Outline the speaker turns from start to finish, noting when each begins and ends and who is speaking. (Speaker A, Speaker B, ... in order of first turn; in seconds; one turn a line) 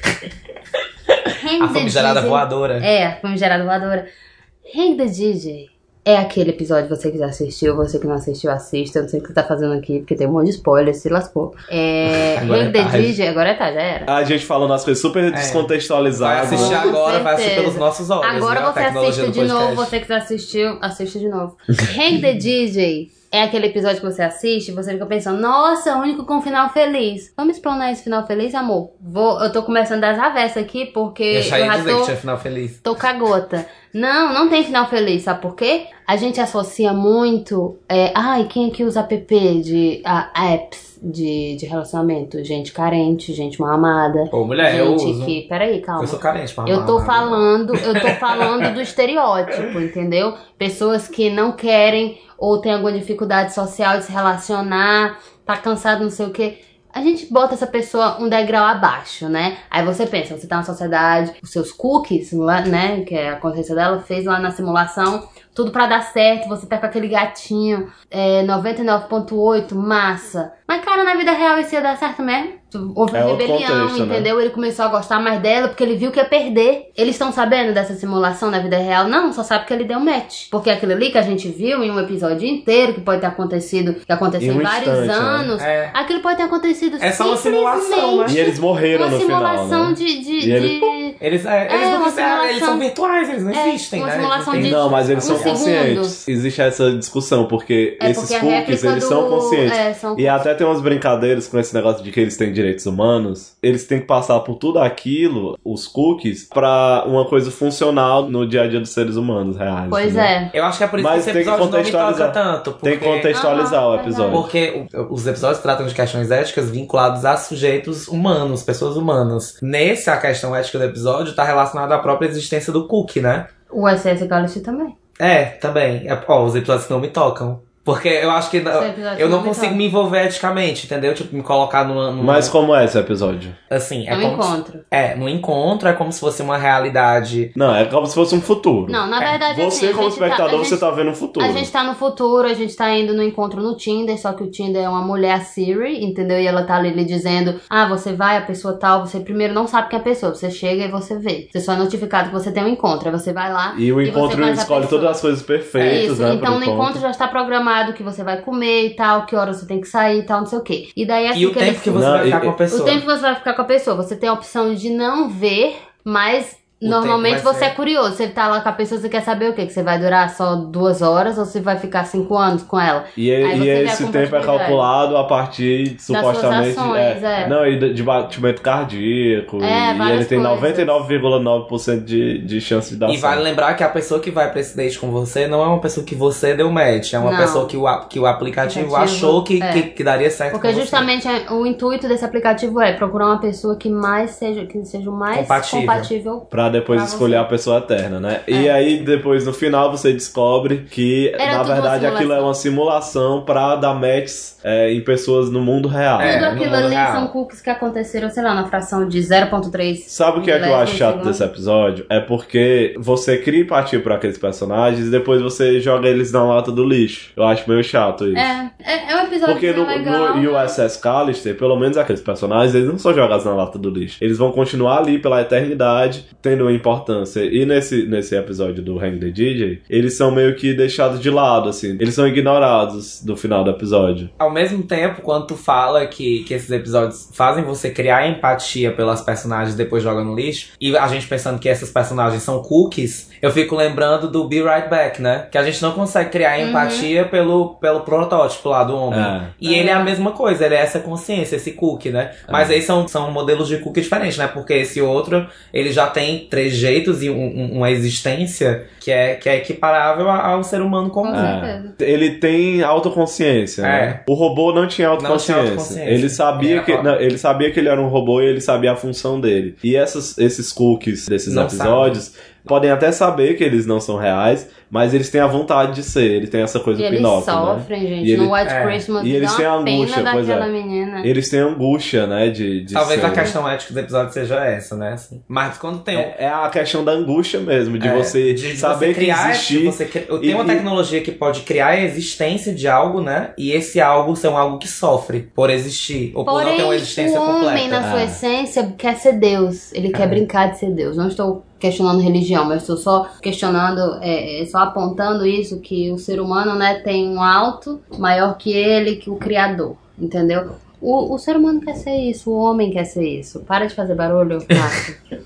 Speaker A: 1.4-4.1
Speaker B: 1.6-2.9
Speaker A: 4.7-14.1
Speaker B: 12.1-13.2
Speaker C: 14.1-16.9
Speaker B: 15.3-19.9
Speaker A: 16.4-32.1
Speaker B: 31.3-32.8
Speaker A: 32.8-92.8
Speaker B: 44.3-45.4
Speaker B: 46.0-48.8
Speaker C: 73.1-74.3
Speaker C: 84.4-85.5
Speaker B: 85.6-86.0
Speaker B: 87.0-88.4
Speaker C: 88.2-90.9
Speaker B: 91.2-95.6
Speaker A: 93.5-96.2
Speaker C: 94.5-110.3
Speaker A: 98.0-100.5
Speaker A: 109.9-110.5
Speaker B: 110.5-113.3
Speaker C: 111.0-114.5
Speaker A: 113.3-114.5
Speaker B: 114.3-123.5
Speaker A: 123.7-124.9
Speaker B: 125.2-132.5
Speaker A: 128.7-129.8
Speaker C: 132.2-133.6
Speaker B: 133.7-137.5
Speaker A: 134.1-134.8
Speaker C: 137.6-141.7
Speaker A: 138.9-140.8
Speaker A: 141.4-155.2
Speaker C: 153.7-157.0
Speaker A: 155.8-174.9
Speaker B: 161.3-163.0
Speaker C: 161.9-162.5
Speaker B: 166.8-167.7
Speaker C: 173.2-183.4
Speaker A: 176.1-177.5
Speaker A: 179.6-181.0
Speaker B: 183.1-191.1
Speaker A: 187.2-187.8
Speaker A: 188.6-189.9
Speaker A: 190.5-197.5
Speaker B: 195.3-196.1
Speaker C: 196.5-206.6
Speaker A: 201.4-202.5
Speaker B: 206.2-207.3
Speaker A: 206.2-211.4
Speaker C: 210.1-218.5
Speaker A: 218.3-220.8
Speaker C: 219.4-234.3
Speaker B: 234.4-261.5
Speaker A: 246.6-247.1
Speaker C: 249.1-249.5
Speaker A: 249.6-250.1
Speaker C: 252.5-252.8
Speaker A: 261.2-261.9
Speaker C: 261.3-278.6
Speaker B: 263.8-264.2
Speaker B: 265.2-267.1
Speaker B: 271.5-272.2
Speaker A: 276.9-281.3
Speaker B: 278.6-279.1
Speaker C: 279.2-280.7
Speaker C: 281.2-283.5
Speaker B: 282.9-286.3
Speaker A: 283.2-283.5
Speaker C: 286.1-290.8
Speaker B: 288.0-298.0
Speaker A: 296.4-315.2
Speaker C: 298.0-298.4
Speaker B: 300.1-300.4